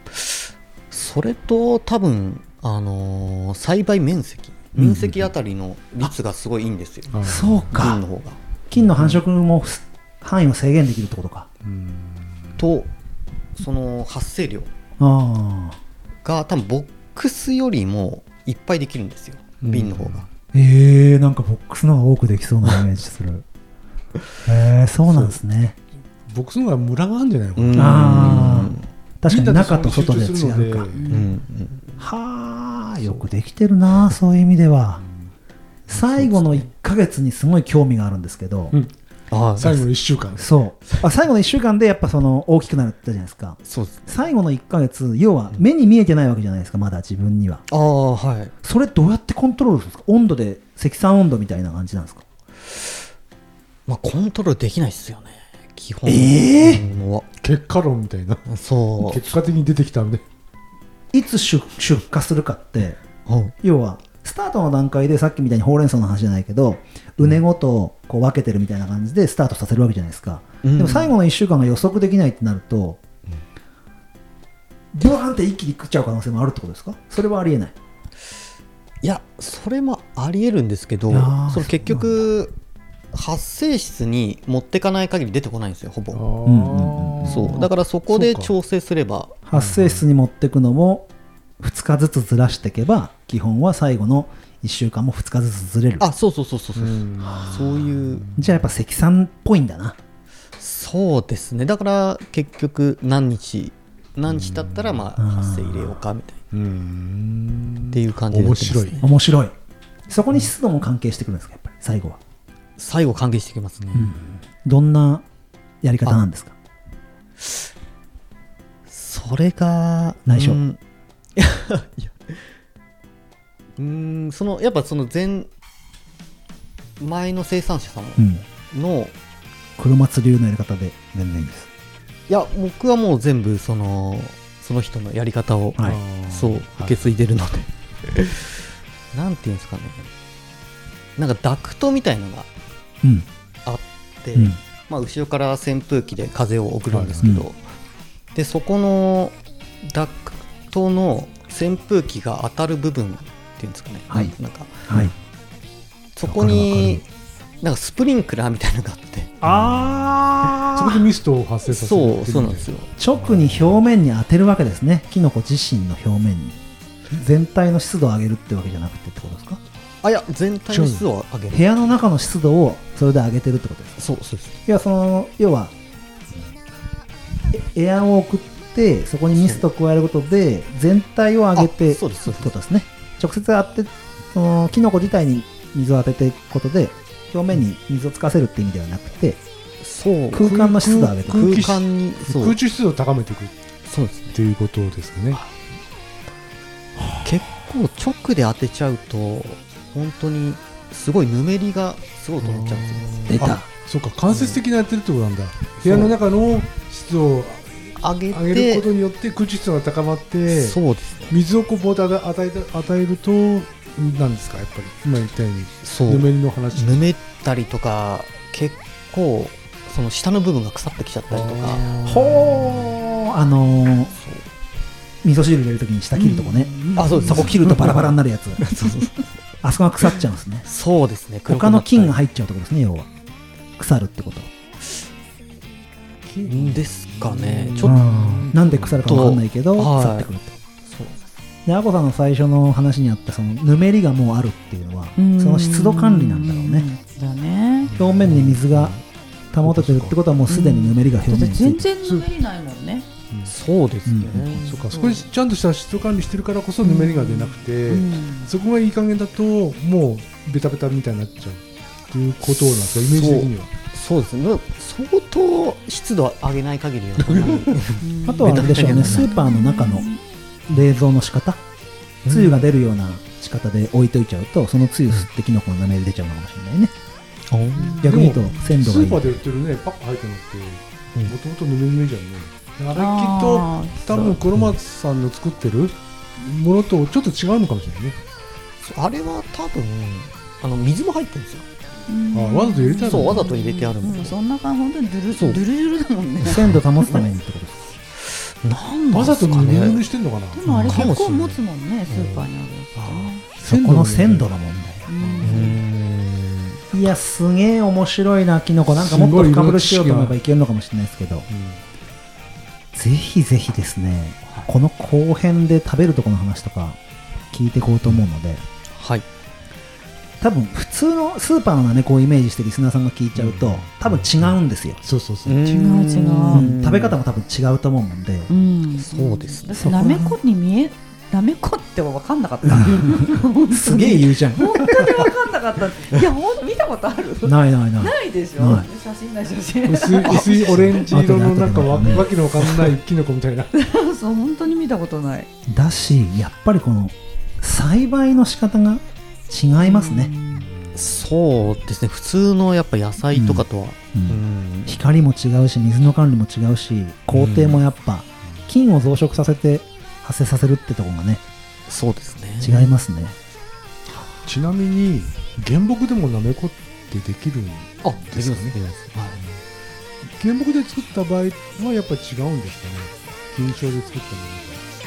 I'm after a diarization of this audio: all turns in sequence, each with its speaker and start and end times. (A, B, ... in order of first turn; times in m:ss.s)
0:00.1-0:08.4 A
0:04.8-0:05.3 B
0:07.1-0:07.7 C
0:07.2-0:08.0 B
0:08.7-0:11.5 B
0:08.8-0:09.2 C
0:11.6-0:12.6 C
0:12.6-0:12.9 A
0:13.6-0:14.7 A
0:15.0-0:15.8 B
0:16.2-0:20.3 A
0:19.6-0:20.3 C
0:20.5-0:23.4 B
0:24.4-0:25.8 B
0:25.0-0:25.4 C
0:26.3-0:28.7 C
0:27.6-0:28.9 A
0:27.8-0:30.9 B
0:29.2-0:31.1 C
0:30.9-0:31.4 D
0:31.1-0:32.0 A
0:32.0-0:35.0 B
0:35.9-0:38.8 B
0:39.3-0:39.9 A
0:39.6-0:40.5 C
0:40.4-0:47.6 B
0:43.6-0:44.1 A
0:47.7-0:48.5 A
0:48.6-0:52.2 B
0:53.9-0:57.3 A
0:56.0-0:56.8 B
0:56.8-1:00.2 C
0:58.5-0:59.4 A
1:01.1-1:03.0 B
1:03.3-1:03.6 A
1:03.6-1:13.0 B
1:10.6-1:11.2 A
1:14.9-1:17.8 B
1:19.0-1:22.6 A
1:21.1-1:22.3 B
1:23.1-1:26.2 A
1:26.1-1:28.5 C
1:26.4-1:27.6 B
1:27.2-1:29.4 A
1:29.5-1:31.1 B
1:29.5-1:30.0 C
1:31.6-1:36.0 B
1:36.0-1:38.3 A
1:36.8-1:38.4 C
1:38.4-1:40.0 B
1:40.6-1:46.4 A
1:44.3-1:45.0 C
1:45.2-1:45.9 B
1:46.5-1:49.0 C
1:47.9-1:49.1 A
1:49.0-1:49.5 B
1:50.1-1:52.2 B
1:52.8-1:54.1 A
1:53.8-1:54.1 C
1:53.9-1:55.2 B
1:55.8-1:56.6 B
1:57.4-1:57.7 A
1:58.9-2:00.8 A
2:00.3-2:00.6 B
2:01.4-2:02.5 A
2:03.8-2:05.5 A
2:07.0-2:09.1 A
2:08.2-2:08.4 B
2:09.8-2:11.7 B
2:12.3-2:20.1 A
2:15.8-2:17.0 C
2:21.2-2:22.5 A
2:23.6-2:27.6 A
2:26.9-2:27.3 C
2:28.4-2:35.1 A
2:34.9-2:35.1 B
2:36.2-2:37.0 A
2:36.2-2:37.0 B
2:37.6-2:39.4 A
2:39.4-2:41.1 B
2:40.6-2:43.8 C
2:41.7-2:42.9 A
2:43.0-2:46.6 B
2:47.1-2:49.6 B
2:50.0-2:51.8 A
2:50.7-2:51.1 C
2:51.5-2:54.0 B
2:54.0-2:54.6 A
2:54.7-2:55.7 B
2:57.5-3:09.4 B
2:59.3-2:59.6 A
3:01.6-3:02.5 A
3:09.8-3:10.5 A
3:10.3-3:11.7 B
3:10.4-3:13.5 C
3:11.3-3:12.6 A
3:13.8-3:14.4 A
3:14.3-3:15.4 C
3:17.2-3:23.4 A
3:22.4-3:30.8 C
3:23.3-3:23.7 B
3:24.3-3:24.6 A
3:25.8-3:26.2 A
3:28.0-3:28.9 A
3:30.5-3:31.4 A
3:31.3-3:37.1 C
3:35.8-3:42.4 A
3:41.3-3:42.8 C
3:42.0-3:44.1 B
3:44.1-3:44.5 A
3:45.2-3:48.6 B
3:46.2-3:47.5 D
3:47.0-3:49.3 A
3:49.6-3:50.7 B
3:50.6-3:52.2 A
3:51.5-3:53.1 B
3:53.8-3:54.5 B
3:56.3-3:59.0 C
3:56.4-3:58.1 A
3:57.8-4:00.6 B
3:59.0-4:00.3 A
4:00.8-4:01.2 A
4:01.7-4:06.9 B
4:05.2-4:07.9 D
4:07.8-4:08.6 C
4:08.0-4:09.0 B
4:08.3-4:09.0 A
4:09.5-4:11.9 B
4:09.6-4:10.2 C
4:10.5-4:13.1 D
4:12.0-4:12.3 C
4:13.4-4:14.7 A
4:14.1-4:14.6 B
4:14.5-4:15.3 D
4:14.6-4:23.7 C
4:16.8-4:18.5 D
4:23.0-4:29.3 A
4:27.2-4:28.9 C
4:28.0-4:30.2 D
4:28.2-4:30.1 B
4:30.7-4:31.6 B
4:32.2-4:32.7 A
4:32.3-4:36.9 B
4:37.5-4:38.0 A
4:37.8-4:38.3 D
4:38.0-4:39.3 B
4:38.0-4:48.2 C
4:42.9-4:44.1 D
4:44.1-4:44.7 A
4:48.8-4:51.7 A
4:52.1-4:57.2 D
4:52.3-4:53.5 C
4:53.0-4:54.4 A
4:55.3-4:55.6 A
4:56.4-4:57.8 B
4:56.4-4:57.2 A
4:58.2-5:00.0 A
4:59.1-5:01.0 C
5:00.5-5:03.4 D
5:00.6-5:01.1 B
5:00.9-5:02.5 A
5:03.0-5:04.5 C
5:03.6-5:05.4 B
5:05.1-5:05.8 D
5:05.2-5:05.6 C
5:05.4-5:06.8 A
5:06.9-5:11.5 B
5:08.9-5:10.4 C
5:11.5-5:11.8 C
5:12.9-5:17.0 B
5:17.5-5:18.6 B
5:18.9-5:19.3 A
5:20.4-5:25.0 B
5:23.4-5:25.6 C
5:25.5-5:27.2 A
5:25.6-5:26.7 D
5:26.5-5:28.5 B
5:28.5-5:41.2 D
5:29.0-5:30.3 A
5:29.8-5:30.4 B
5:32.6-5:34.8 B
5:37.4-5:38.9 B
5:39.8-5:43.7 C
5:41.1-5:42.3 B
5:43.7-5:45.5 D
5:45.7-5:50.3 B
5:49.8-5:50.7 D
5:50.9-5:55.0 A
5:53.3-6:01.4 B
5:57.3-5:57.8 A
6:01.9-6:02.9 A
6:02.6-6:03.4 B
6:04.4-6:09.6 C
6:08.0-6:09.4 A
6:10.2-6:14.8 C